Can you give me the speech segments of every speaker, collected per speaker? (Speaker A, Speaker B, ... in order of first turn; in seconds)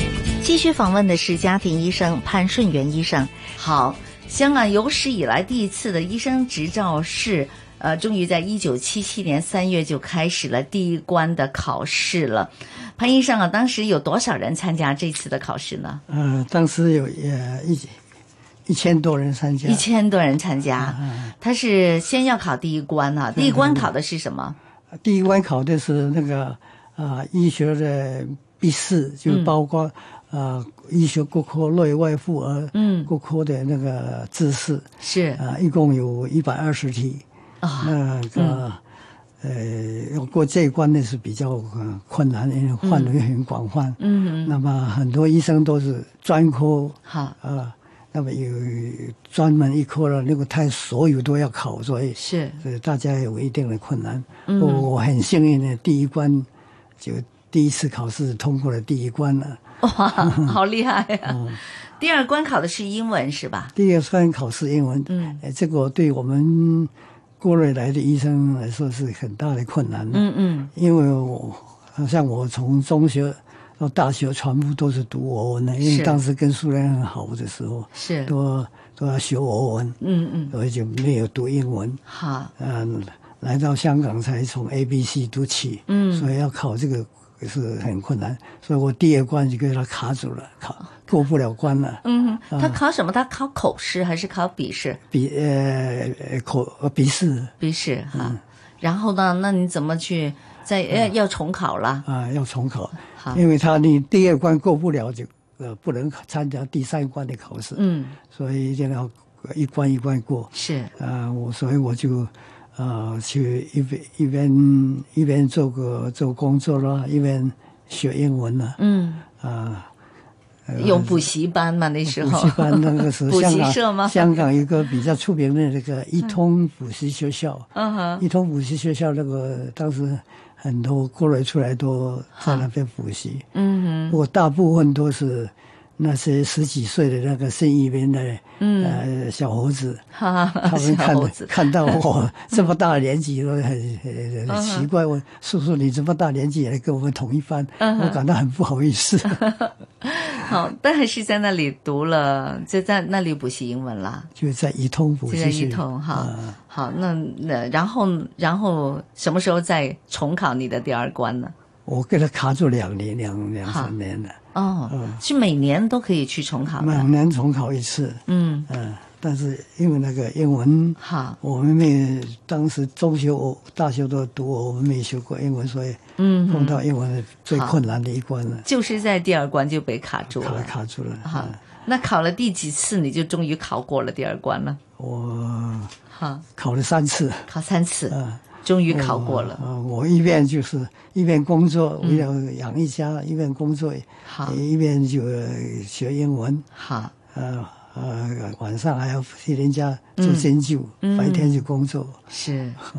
Speaker A: 0.4-16.0, 19.6-24.6, 29.3-29.6, 32.7-33.1, 35.0-35.4, 37.6-38.6, 42.8-43.1, 44.0-44.6, 47.1-47.4, 52.2-52.6, 54.5-54.9, 59.8-63.7, 65.1-65.4, 70.1-70.7, 75.8-76.2, 77.9-78.3, 80.0-80.5, 82.1-82.5, 85.9-86.3, 92.0-95.0, 97.6-102.1, 103.1-103.4, 107.8-108.2, 110.5-110.9, 118.8-119.2, 120.8-124.4, 127.8-128.2, 132.4-132.7, 133.5-134.2, 138.6-139.0, 140.1-142.0, 144.5-144.9, 147.8-148.2, 149.3-154.3, 155.3-161.5, 163.7-163.9, 164.5-167.1, 168.3-168.7, 171.0-171.4, 176.2-176.8, 177.5-177.8, 178.7-180.7, 181.2-184.8, 186.1-186.4, 187.5-189.6, 192.0-192.3, 194.2-194.6, 196.7-197.1, 200.2-200.5, 201.0-201.7, 202.3-202.8
Speaker B: 16.1-18.0, 18.7-19.9, 20.8-21.4, 23.3-23.9, 25.0-37.2, 37.8-38.8, 39.4-56.5, 57.0-59.6, 60.1-60.6, 61.2-61.6, 63.8-80.0, 80.5-82.0, 82.6-92.8, 95.1-97.5, 98.1-98.4, 102.0-118.8, 119.4-119.9, 120.7-121.3, 122.1-133.5, 134.1-140.0, 140.6-149.4, 154.3-156.6, 161.9-165.2, 166.8-178.7, 180.3-181.6, 185.0-185.9, 186.6-187.5, 188.1-196.7, 197.3-202.2